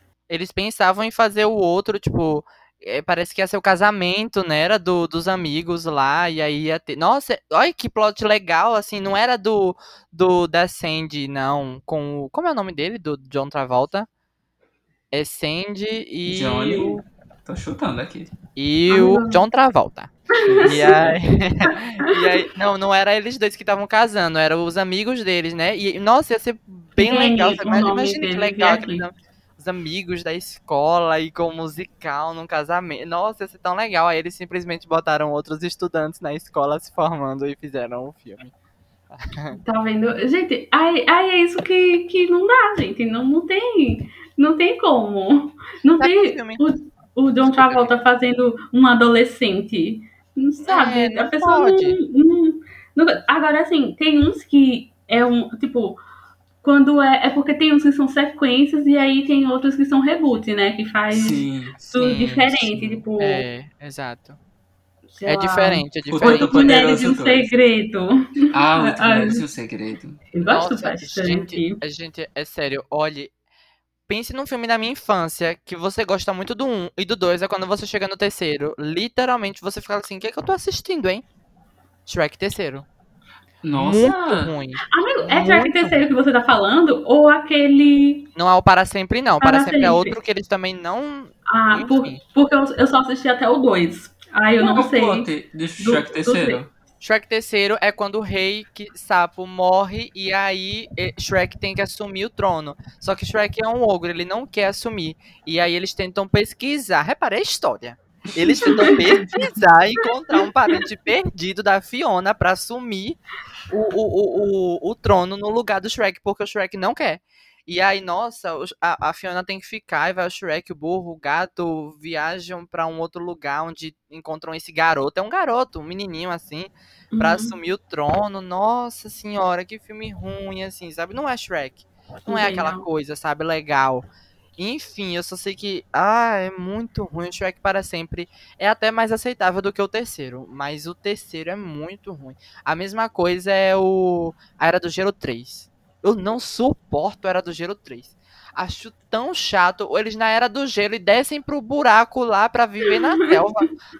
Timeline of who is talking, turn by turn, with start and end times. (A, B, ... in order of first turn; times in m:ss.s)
0:00.3-0:14.1 A
0:15.1-0:17.0 A
0:16.3-0:18.3 B
0:18.6-0:20.1 A
0:18.9-0:19.4 C
0:20.4-0:21.0 C
0:20.4-0:21.2 B
0:20.6-0:38.5 A
0:27.0-0:29.0 C
0:39.2-0:39.6 A
0:39.6-0:56.0 C
0:46.0-0:46.6 A
0:47.4-0:47.9 A
0:50.6-0:52.0 A
0:56.6-1:03.4 C
1:01.1-1:01.8 B
1:01.8-1:04.4 A
1:05.1-1:09.4 C
1:05.2-1:06.7 A
1:06.1-1:07.5 B
1:08.5-1:10.2 B
1:10.3-1:11.8 C
1:10.5-1:13.3 A
1:14.1-1:21.2 A
1:22.0-1:22.8 A
1:23.6-1:24.5 B
1:23.7-1:26.1 A
1:24.9-1:28.3 C
1:28.3-1:32.2 A
1:29.4-1:30.2 C
1:31.5-1:35.3 C
1:34.6-1:36.7 B
1:35.8-1:36.6 C
1:37.0-2:33.7 A
1:48.5-1:49.5 C
2:07.1-2:07.5 C
2:12.3-2:12.8 C